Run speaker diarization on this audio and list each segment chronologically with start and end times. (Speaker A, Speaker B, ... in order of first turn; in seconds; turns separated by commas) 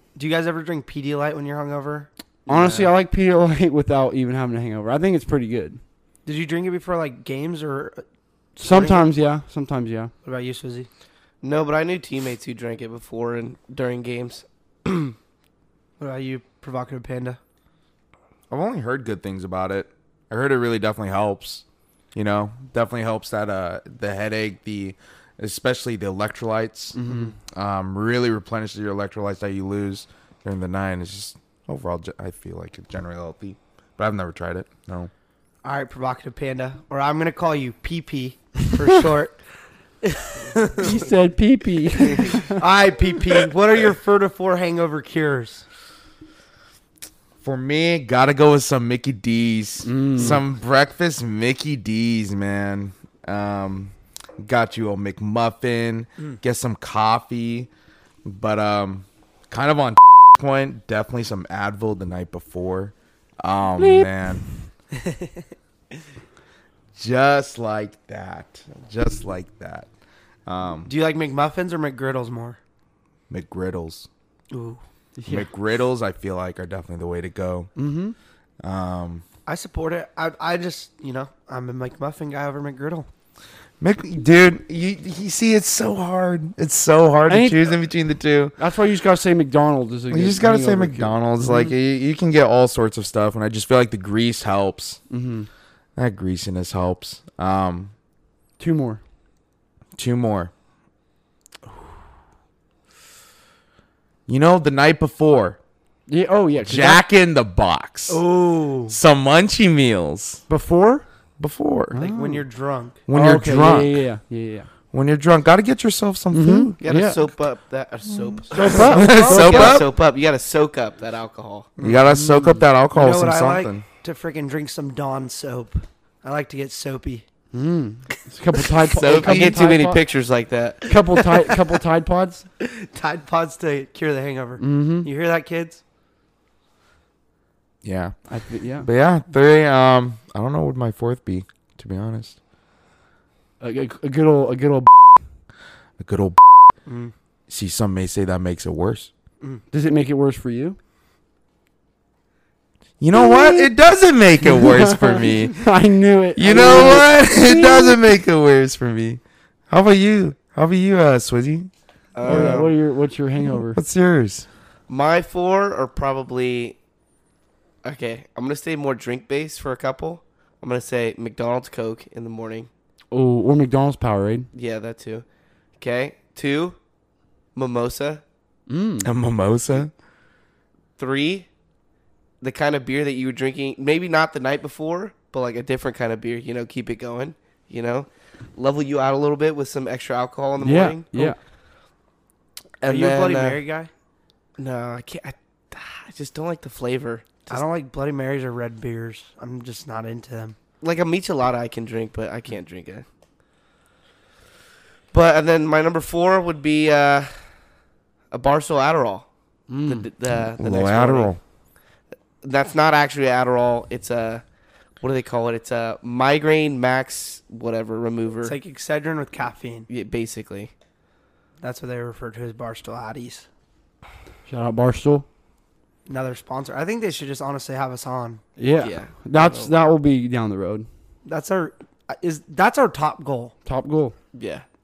Speaker A: 0.1-2.1, Speaker B: 2.5-5.8, Speaker A: 6.2-8.0, Speaker B: 8.6-10.1, Speaker A: 8.6-9.1, Speaker A: 10.2-10.9, Speaker C: 11.4-15.1, Speaker A: 16.0-17.4, Speaker D: 18.5-21.6, Speaker D: 22.1-35.1, Speaker B: 26.9-27.3, Speaker A: 35.6-39.4, Speaker A: 40.0-41.1, Speaker B: 40.8-42.6, Speaker A: 42.3-45.6, Speaker D: 47.4-57.7, Speaker B: 49.9-50.4, Speaker D: 58.2-64.4, Speaker B: 63.8-64.1, Speaker A: 65.0-65.4, Speaker D: 66.9-69.9, Speaker D: 70.5-70.9, Speaker A: 70.8-72.6, Speaker D: 73.3-74.1, Speaker A: 74.5-74.8, Speaker B: 75.2-75.5, Speaker D: 75.2-77.7, Speaker B: 77.8-78.2, Speaker D: 78.6-79.2, Speaker A: 79.5-83.1, Speaker D: 83.8-88.5, Speaker B: 87.3-87.7, Speaker B: 88.6-91.7, Speaker D: 90.1-95.0, Speaker B: 95.1-95.5, Speaker D: 96.0-97.9, Speaker B: 98.6-99.0, Speaker D: 100.0-100.5, Speaker D: 104.3-105.6, Speaker B: 106.1-107.0, Speaker D: 106.6-108.2, Speaker A: 108.1-109.0, Speaker D: 108.9-110.4, Speaker B: 110.5-111.0, Speaker D: 111.4-112.0, Speaker B: 111.9-112.4, Speaker A: 112.0-113.0, Speaker D: 113.1-114.0, Speaker B: 113.1-114.7, Speaker D: 114.9-116.8, Speaker B: 116.3-117.2, Speaker C: 116.8-121.7, Speaker D: 118.1-119.9, Speaker A: 118.5-119.8, Speaker B: 118.5-119.8, Speaker D: 121.8-123.8, Speaker B: 122.1-122.6, Speaker A: 122.9-127.2, Speaker B: 127.5-130.0, Speaker C: 128.9-131.2, Speaker D: 129.1-129.6, Speaker B: 130.9-132.4, Speaker A: 132.6-135.8, Speaker B: 134.6-135.1, Speaker D: 137.8-138.2, Speaker B: 138.3-138.9, Speaker D: 138.8-142.4, Speaker B: 143.6-144.9, Speaker D: 146.0-146.4, Speaker A: 146.8-147.1, Speaker D: 147.5-149.1, Speaker B: 149.7-150.8, Speaker D: 153.0-155.6, Speaker B: 153.1-153.7, Speaker B: 154.4-157.9, Speaker D: 156.3-161.7, Speaker C: 162.1-162.7, Speaker D: 162.2-162.7, Speaker B: 162.2-163.8, Speaker D: 163.5-164.4, Speaker C: 164.9-166.8, Speaker C: 167.8-172.7, Speaker B: 173.1-174.5, Speaker C: 174.5-175.2, Speaker C: 175.8-176.8, Speaker C: 177.5-178.2, Speaker B: 178.7-179.1, Speaker D: 179.0-179.9, Speaker C: 181.0-181.5, Speaker C: 182.4-191.3, Speaker B: 190.6-191.4, Speaker C: 192.8-193.6, Speaker A: 192.8-193.9, Speaker C: 194.6-197.6, Speaker A: 197.5-200.6, Speaker C: 200.8-203.0, Speaker C: 205.1-207.5, Speaker C: 208.3-209.2, Speaker B: 209.7-210.1, Speaker C: 209.8-211.3, Speaker D: 210.6-211.4, Speaker C: 212.4-214.4, Speaker C: 215.0-218.6, Speaker A: 218.4-219.9, Speaker C: 219.9-220.7, Speaker A: 221.6-223.4, Speaker B: 224.4-225.2, Speaker A: 226.1-228.4, Speaker B: 228.6-230.9, Speaker C: 228.8-229.7, Speaker A: 231.2-233.5, Speaker B: 233.7-234.1, Speaker C: 234.3-234.6